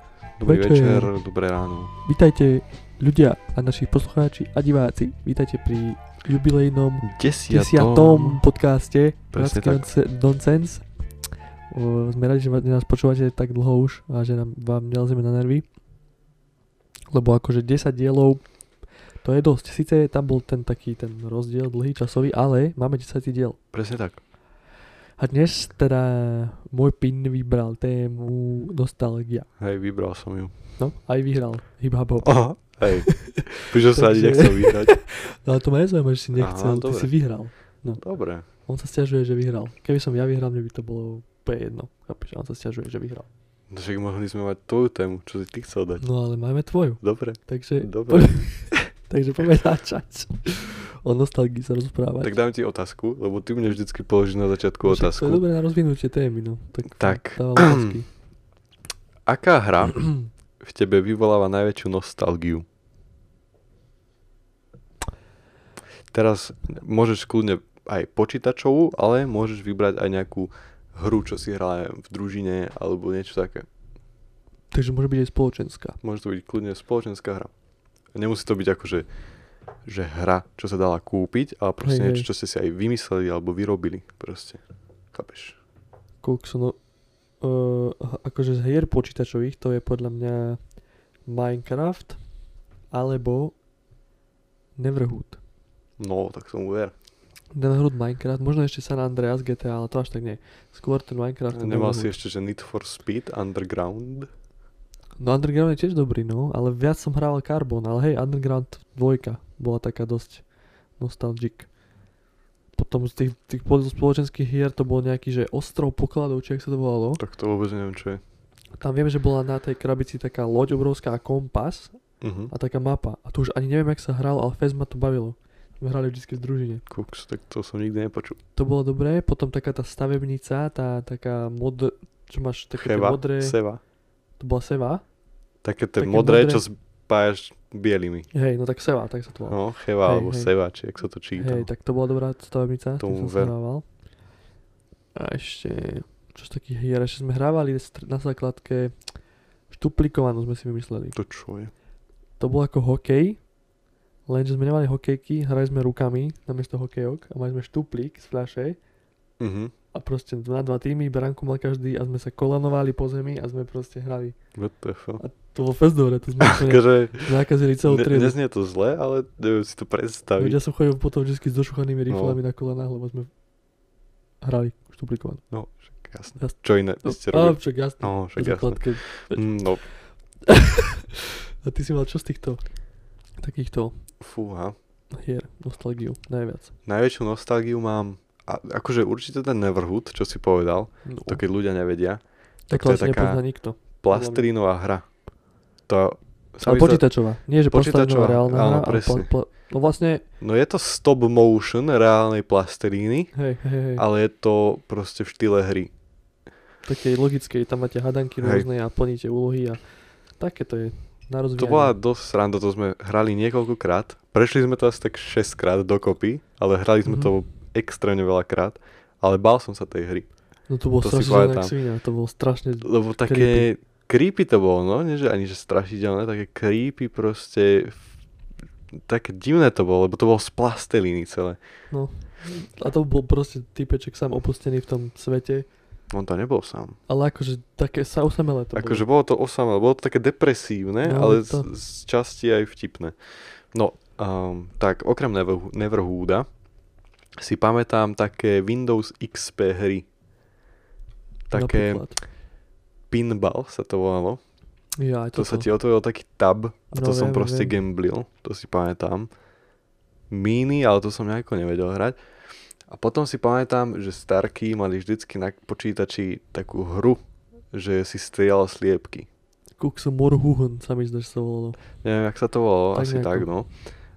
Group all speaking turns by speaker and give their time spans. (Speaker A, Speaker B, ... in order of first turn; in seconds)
Speaker A: 0.4-1.9, 7.0-8.4, 9.3-9.9, 23.7-24.2, 29.6-30.5, 32.2-35.0, 36.4-37.1, 38.0-38.5, 43.7-46.0, 47.0-48.6, 52.2-55.4, 57.0-58.0, 59.2-62.6, 66.1-73.7, 76.0-77.5, 78.1-79.1, 79.9-84.6, 85.1-85.6, 96.0-96.9, 101.5-104.3, 117.2-118.2, 122.2-122.5, 126.9-128.4, 132.8-133.8, 135.6-138.3, 139.5-141.7, 143.0-143.5, 151.1-151.7, 159.4-159.7, 164.6-165.2, 166.4-167.3, 167.8-170.6, 172.1-172.4, 175.5-179.8, 184.2-184.8, 186.9-193.4, 194.0-195.0, 195.9-197.1, 197.7-199.3, 200.4-203.3, 203.9-205.9, 211.6-220.3, 221.0-221.7, 222.8-228.0, 228.9-231.6, 236.1-237.0, 238.8-243.2, 243.7-246.4, 247.4-250.1, 251.5-252.0, 253.1-254.4, 255.3-259.3, 260.3-262.2, 262.9-267.2, 267.7-269.3, 272.0-273.7
Speaker B: 0.4-1.1, 2.0-10.9, 11.7-15.6, 17.1-18.4, 19.2-23.6, 25.2-29.5, 30.8-38.0, 38.6-43.3, 46.0-52.3, 54.8-58.1, 74.7-76.0, 81.8-82.2, 86.2-86.8, 87.4-90.6, 91.2-92.2, 92.9-93.5, 94.8-95.4, 97.5-102.1, 105.2-110.4, 111.0-111.7, 112.8-117.2, 118.8-122.0, 122.5-126.8, 128.6-133.6, 134.4-135.0, 136.0-136.6, 138.3-140.5, 141.4-143.8, 145.1-148.9, 149.7-151.2, 152.4-153.4, 154.3-158.8, 159.9-164.4, 165.2-168.4, 170.4-173.3, 174.4-175.4, 176.4-182.7, 183.4-183.9, 185.1-186.7, 191.1-191.4, 192.7-194.5, 196.6-200.2, 203.3-204.1, 206.9-209.8, 210.4-211.9, 220.7-223.7, 231.9-235.7, 237.1-239.1, 241.0-241.7, 251.5-252.2, 255.0-255.7, 256.9-257.8, 269.8-271.8, 272.9-273.4